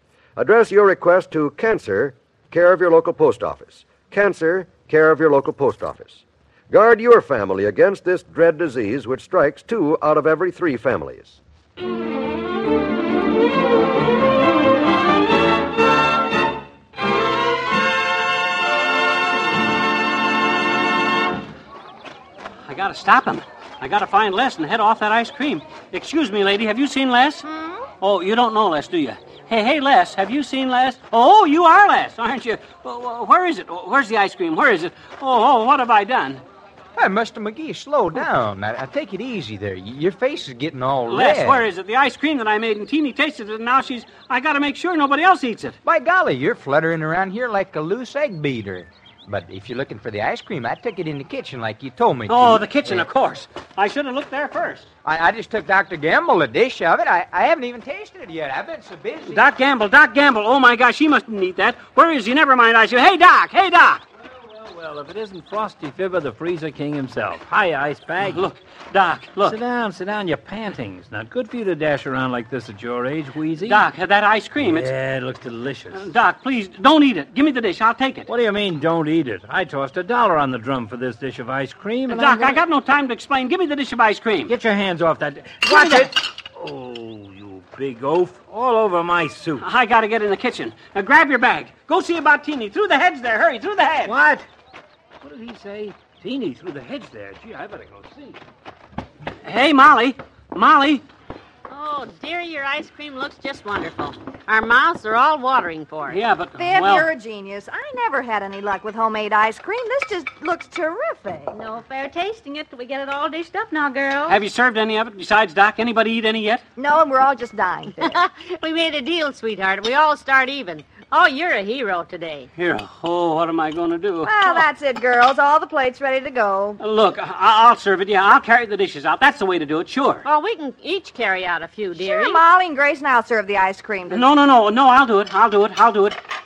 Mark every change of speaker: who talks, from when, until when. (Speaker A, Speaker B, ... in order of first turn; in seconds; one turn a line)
Speaker A: 0.4-11.4
Speaker B: 22.7-27.5
Speaker C: 27.6-27.8
Speaker B: 28.0-36.4
Speaker D: 37.0-41.7
Speaker B: 41.1-45.8
Speaker D: 45.8-53.1
Speaker B: 52.3-54.9
Speaker D: 55.0-59.4
Speaker B: 59.2-64.0
Speaker E: 64.3-68.4
Speaker B: 68.2-69.6
Speaker E: 69.4-73.9
Speaker B: 73.6-74.9
Speaker E: 74.6-76.1
Speaker B: 75.9-78.3
Speaker E: 78.3-82.6
Speaker B: 82.1-84.5
Speaker E: 84.5-89.7
Speaker B: 85.7-86.1
Speaker B: 89.6-94.2
Speaker E: 94.0-94.5
Speaker E: 95.2-98.4
Speaker B: 99.4-101.0
Speaker F: 101.7-106.2
Speaker B: 106.1-107.1
Speaker C: 106.6-111.5
Speaker G: 111.5-114.2
Speaker F: 111.9-112.4
Speaker B: 114.3-116.6
Speaker C: 116.8-118.2
Speaker F: 118.0-122.5
Speaker B: 122.5-124.7
Speaker C: 124.2-126.8
Speaker B: 126.8-130.3
Speaker F: 130.2-132.4
Speaker C: 132.0-134.2
Speaker B: 134.1-136.2